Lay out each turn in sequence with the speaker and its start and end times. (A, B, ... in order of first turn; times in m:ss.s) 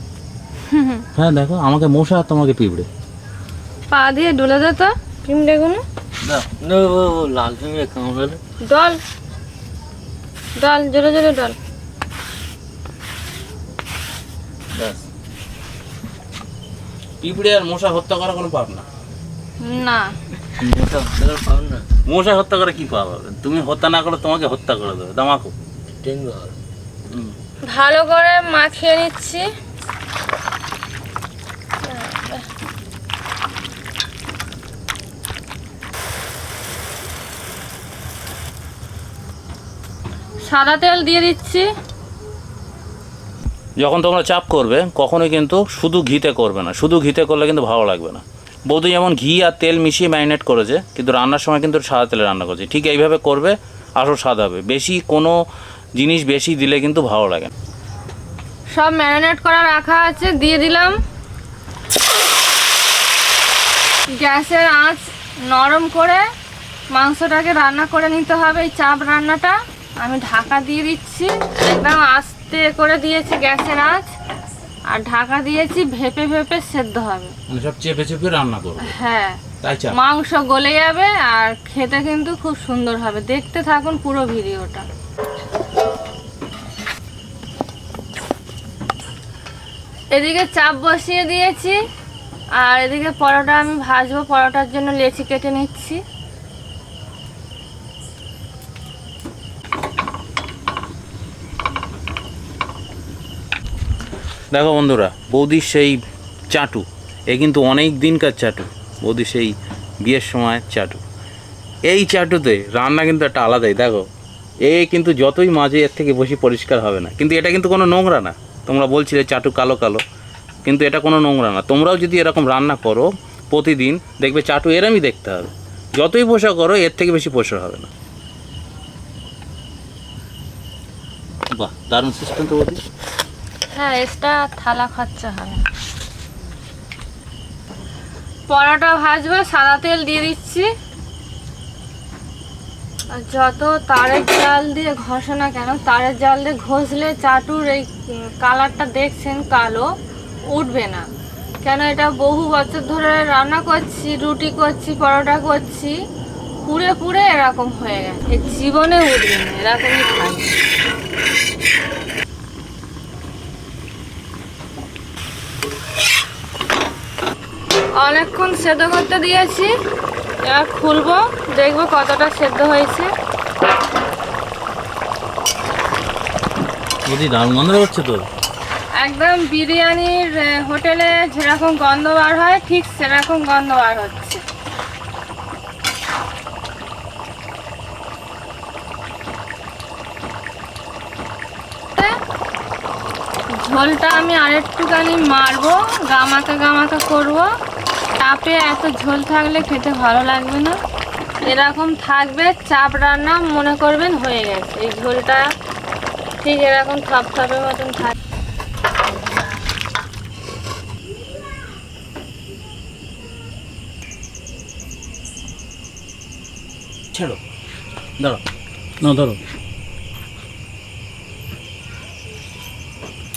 0:00.7-0:01.0 A
0:01.1-0:02.9 B
0:03.9-0:05.8 A
0:06.2-0:06.5 B
0:06.6-0:08.4 C
0:08.6-0:09.0 A
0:10.6-0:11.6 A
0:17.2-0:18.8 B
0:19.6-0:20.1 A
0:20.6-0:21.8 C
0:22.0-0:25.5 B
0:26.0-0:26.5 C
0:27.1-0:27.3 B
0:27.7-0:29.4 A
0:31.8-0:32.4 A
0:40.4-0:41.7 A
0:43.8-0:55.3 B
0:56.0-0:57.5 B
0:58.7-1:01.0 A
1:04.2-1:06.2 A
1:06.9-1:14.0 A
1:14.9-1:17.3 A
1:17.5-1:18.9 B
1:18.8-1:19.4 A
1:19.6-1:19.9 B
1:19.9-1:24.8 A
1:30.1-1:31.8 A
1:32.6-1:36.0 A
1:44.5-1:46.0 B
1:46.5-1:51.0 B
1:51.9-1:54.0 B
1:54.6-2:00.0 B
2:00.6-2:07.9 B
2:11.6-2:12.8 B
2:13.7-2:15.6 A
2:18.5-2:20.7 A
2:23.1-2:27.9 A
2:28.4-2:29.9 A
2:30.5-2:31.0 A
2:31.6-2:35.9 A
2:36.6-2:40.6 A
2:48.0-2:49.7 A
2:50.4-2:53.1 A
2:57.1-2:58.2 B
2:59.0-3:04.4 A
3:13.6-3:17.5 A
3:18.2-3:20.8 A
3:21.4-3:25.4 A
3:26.4-3:28.1 A
3:37.1-3:37.4 B
3:39.0-3:39.4 B